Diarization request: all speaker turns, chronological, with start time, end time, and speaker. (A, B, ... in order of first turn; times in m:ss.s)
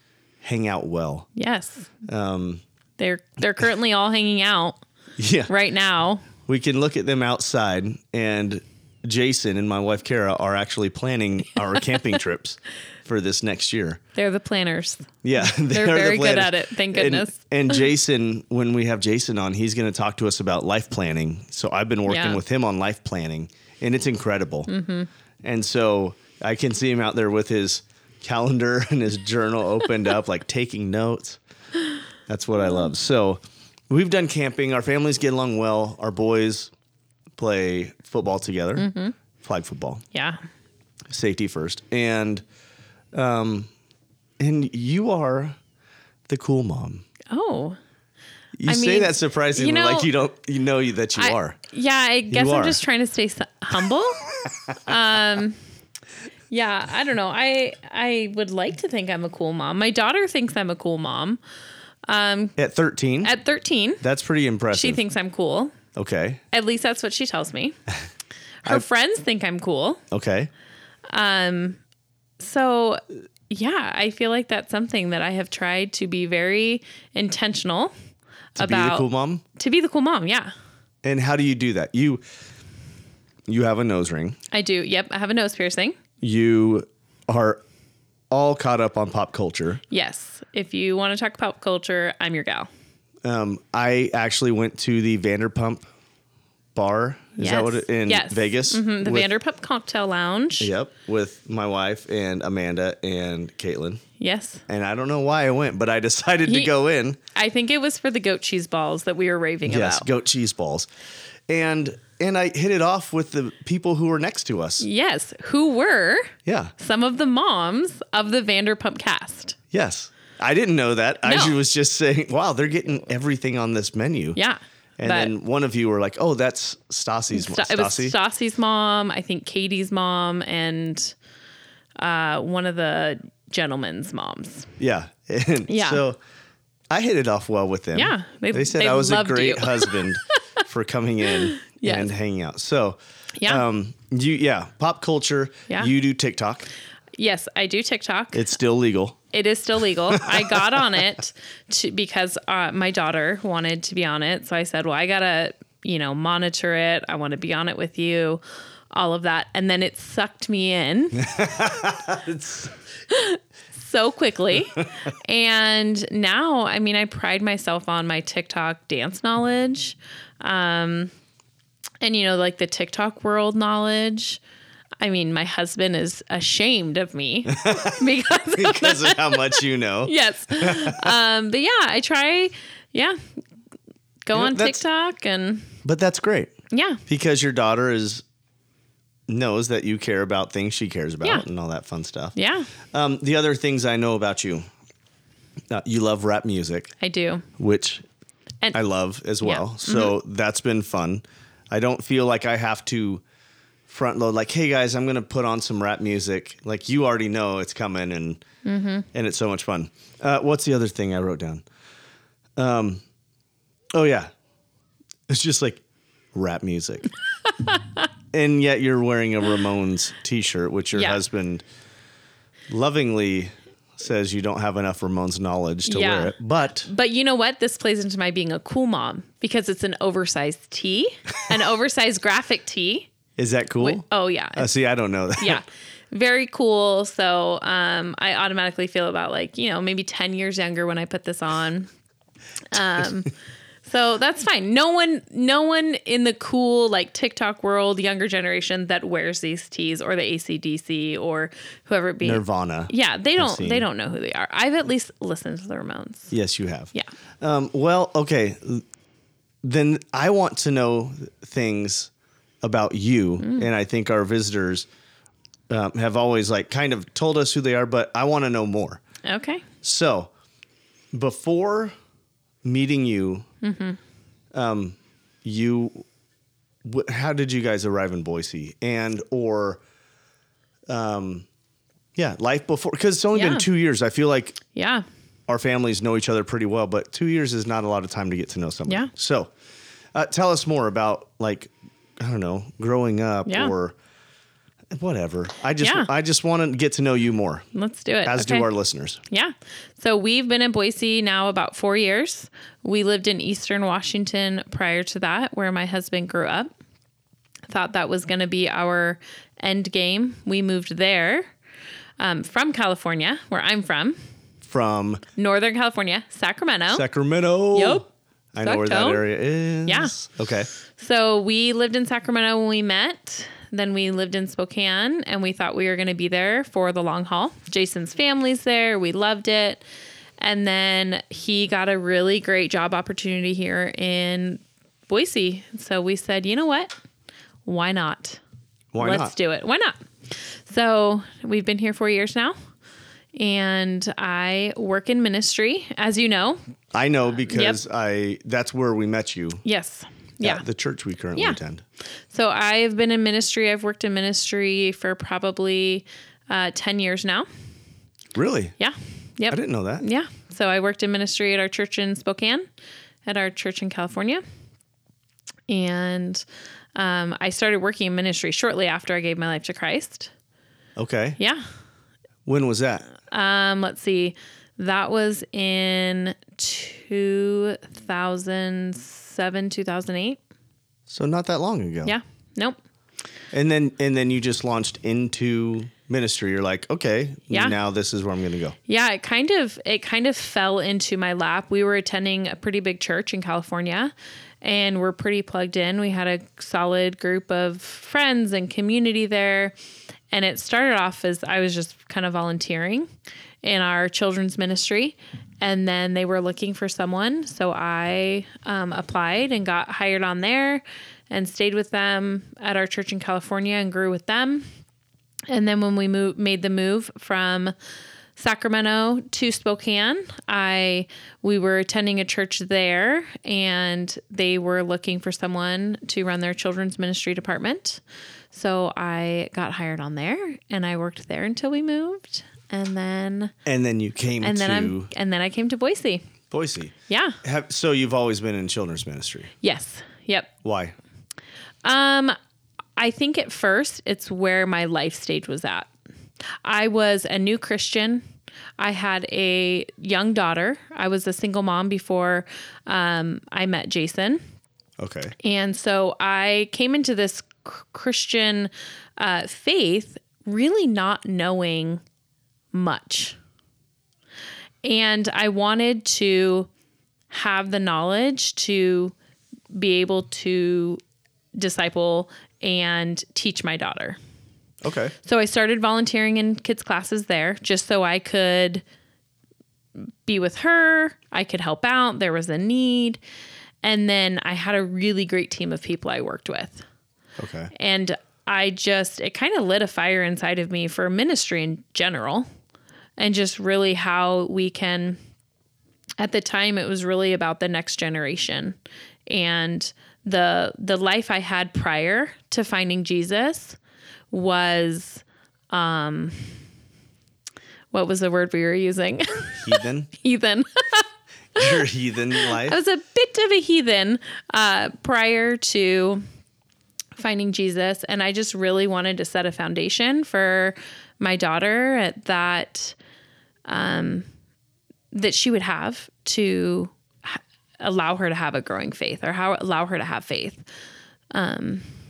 0:00.4-0:01.3 A
0:01.3-0:01.9 B
0:02.0-0:02.6 A
0:03.0-0:04.8 B
0:05.2-0:05.5 A
0:05.5-0:06.3 B
0:06.4-0:14.0 A
0:14.1-0:17.4 B
0:15.2-0:24.7 A
0:22.1-0:22.4 B
0:24.7-0:25.1 B
0:25.4-0:31.4 A
0:32.3-0:36.7 A
0:37.4-0:38.9 A
0:38.8-0:39.1 B
0:39.4-0:40.0 A
0:40.1-0:40.4 B
0:41.1-0:42.4 A
0:43.1-0:43.7 A
0:44.4-0:45.6 A
0:46.3-0:47.0 A
0:47.3-0:47.8 B
0:48.6-0:51.6 A
0:48.6-0:50.1 B
0:51.2-0:55.6 B
0:52.3-0:52.8 A
0:56.5-1:01.4 B
1:02.1-1:02.6 B
1:02.6-1:03.3 A
1:03.2-1:04.0 B
1:04.0-1:05.0 A
1:04.7-1:05.7 B
1:05.9-1:06.4 A
1:06.5-1:07.8 B
1:08.6-1:10.0 B
1:10.1-1:10.5 A
1:11.1-1:11.8 B
1:12.4-1:17.9 B
1:18.6-1:20.5 B
1:18.6-1:19.4 A
1:21.0-1:22.2 A
1:23.5-1:24.4 A
1:24.5-1:26.0 B
1:26.2-1:27.6 A
1:28.3-1:29.8 A
1:29.9-1:32.7 B
1:33.2-1:35.8 A
1:36.7-1:39.3 A
1:37.4-1:40.7 B
1:40.6-1:44.0 A
1:44.2-1:44.6 B
1:44.7-1:47.2 A
1:46.4-1:46.7 B
1:47.3-1:50.1 B
1:49.7-1:50.9 A
1:51.5-1:54.8 A
1:54.8-1:59.6 B
1:56.4-1:56.7 A
1:59.7-2:04.4 A
2:01.2-2:01.6 B
2:04.3-2:05.3 B
2:05.0-2:08.1 A
2:07.3-2:11.1 B
2:12.0-2:14.7 B
2:14.8-2:16.2 A
2:15.7-2:16.0 B
2:16.9-2:26.7 A
2:17.9-2:20.6 B
2:21.6-2:22.1 B
2:23.4-2:23.6 B
2:27.2-2:28.4 B
2:28.3-2:29.2 A
2:29.3-2:41.7 B
2:30.1-2:30.7 A
2:41.2-2:42.7 A
2:43.1-2:51.1 B
2:52.0-2:54.4 B
2:55.0-3:03.2 B
2:57.5-3:01.2 A
3:04.2-3:05.7 B
3:04.3-3:04.8 A
3:05.8-3:06.5 A
3:06.7-3:07.0 B
3:07.1-3:08.2 A
3:09.3-3:12.3 A
3:12.3-3:12.7 B
3:12.9-3:14.6 A
3:15.7-3:16.9 A
3:17.0-3:17.5 B
3:17.6-3:18.0 A
3:18.7-3:23.2 A
3:19.4-3:20.1 B
3:23.9-3:28.4 A
3:28.6-3:29.1 B
3:29.1-3:31.6 A
3:32.6-3:33.0 A
3:33.9-3:34.3 A
3:35.3-3:35.8 A
3:36.3-3:37.1 A
3:38.3-3:41.6 A
3:40.9-3:41.2 B
3:42.7-3:46.9 A
3:45.9-3:53.1 B
3:53.4-3:54.0 A
3:53.8-3:54.7 B
3:54.6-3:55.6 A
3:55.4-4:01.9 B
4:02.7-4:03.3 B
4:02.7-4:03.0 A
4:03.8-4:16.3 B
4:12.2-4:13.9 A
4:16.3-4:18.8 A
4:19.6-4:22.1 A
4:22.6-4:24.9 A
4:23.4-4:23.7 B
4:25.7-4:29.0 A
4:29.2-4:29.6 B
4:29.8-4:30.3 A
4:31.1-4:31.9 A
4:32.6-4:33.5 A
4:33.6-4:34.0 B
4:34.5-4:36.0 A
4:36.8-4:39.8 A
4:40.9-4:41.5 A
4:42.1-4:44.6 A
4:43.3-4:43.6 B
4:44.7-4:45.0 B
4:45.5-4:49.5 A
4:48.9-4:49.1 B
4:50.1-4:53.9 A
4:53.4-4:53.7 B
4:54.9-4:57.6 A
4:55.8-4:56.1 B
4:57.7-4:58.7 B
4:58.2-4:59.2 A
4:59.3-5:06.7 B
5:07.7-5:11.5 B
5:12.2-5:14.2 B
5:14.6-5:15.2 A
5:15.4-5:17.0 B
5:16.9-5:20.7 A
5:17.7-5:18.0 B
5:18.6-5:19.2 B
5:19.8-5:20.2 B
5:21.0-5:29.8 B
5:30.4-5:36.9 B
5:37.6-5:38.4 B
5:38.9-5:39.3 A
5:39.0-5:42.6 B
5:43.4-5:46.6 B
5:46.9-5:49.6 A
5:47.5-5:47.8 B
5:49.6-5:50.6 B
5:50.4-5:51.8 A
5:52.3-5:57.5 B
5:58.3-5:58.7 A
5:58.8-6:02.6 B
5:59.5-6:00.0 A
6:03.2-6:04.4 B
6:05.7-6:06.4 B
6:07.0-6:10.3 B
6:11.0-6:11.4 A
6:11.4-6:11.6 B
6:12.4-6:13.1 A
6:13.3-6:20.4 B
6:21.1-6:22.2 A
6:22.0-6:22.8 B
6:23.5-6:28.8 A
6:27.5-6:27.8 B
6:28.9-6:39.7 B
6:40.3-6:43.1 B
6:43.6-6:54.7 B
6:55.5-6:57.7 B
6:58.4-7:13.5 B
7:13.6-7:15.1 A
7:14.4-7:16.3 B
7:16.5-7:19.5 A
7:17.1-7:17.4 B
7:19.6-7:20.5 B
7:20.6-7:20.9 A
7:21.8-7:22.4 B
7:23.0-7:25.9 B
7:26.6-7:28.2 B
7:28.8-7:34.4 B
7:35.0-7:35.3 A
7:35.4-7:42.0 B
7:42.7-7:43.4 B
7:44.8-7:46.7 B
7:47.3-7:49.1 B
7:49.7-7:51.0 B
7:51.6-7:54.2 B
7:54.8-7:55.1 A
7:55.2-7:58.8 B
8:00.0-8:03.2 B
8:03.8-8:06.8 B
8:07.4-8:07.7 A
8:07.7-8:12.5 B
8:13.2-8:15.2 B
8:16.2-8:18.8 B
8:19.3-8:23.8 B
8:24.3-8:26.6 B
8:27.9-8:31.7 B
8:29.6-8:30.1 A
8:31.5-8:32.8 A
8:32.4-8:36.2 B
8:37.2-8:43.0 B
8:43.7-8:44.3 B
8:45.1-8:50.6 B
8:51.3-8:51.9 B